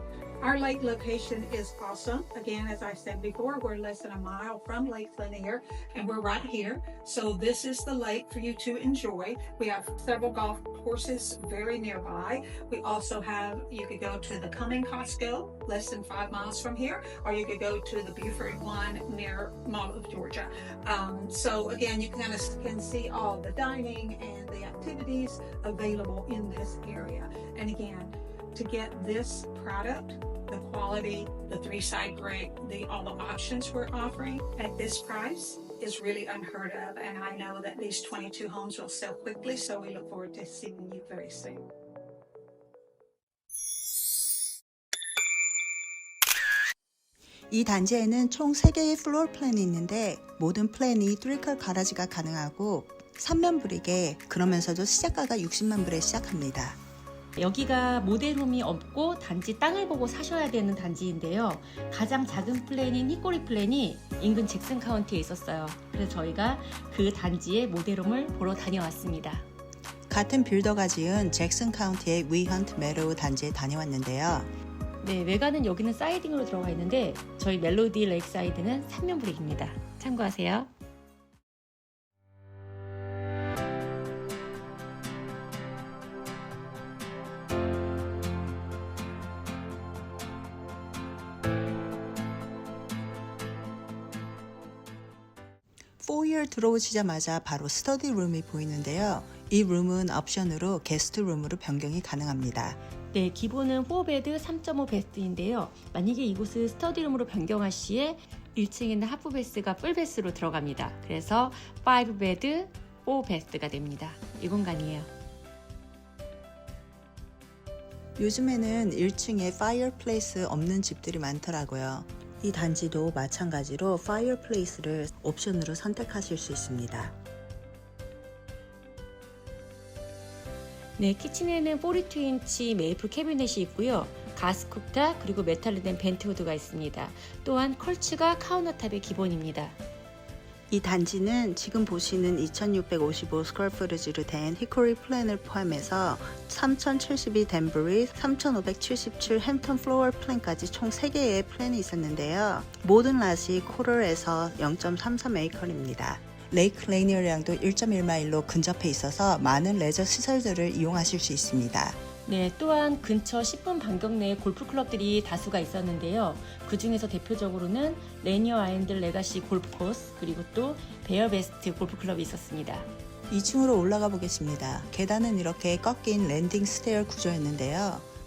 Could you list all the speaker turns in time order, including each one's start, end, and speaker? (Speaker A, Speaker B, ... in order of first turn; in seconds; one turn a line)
Speaker A: 0.4-41.7
Speaker B: 47.5-56.8
Speaker C: 57.4-69.4
Speaker B: 70.1-74.5
Speaker C: 75.0-80.7
Speaker B: 96.0-102.8
Speaker C: 103.1-115.1
Speaker B: 118.2-127.2
Speaker C: 131.0-139.8
Speaker B: 140.7-162.0
Speaker C: 162.2-172.9
Speaker B: 173.3-178.1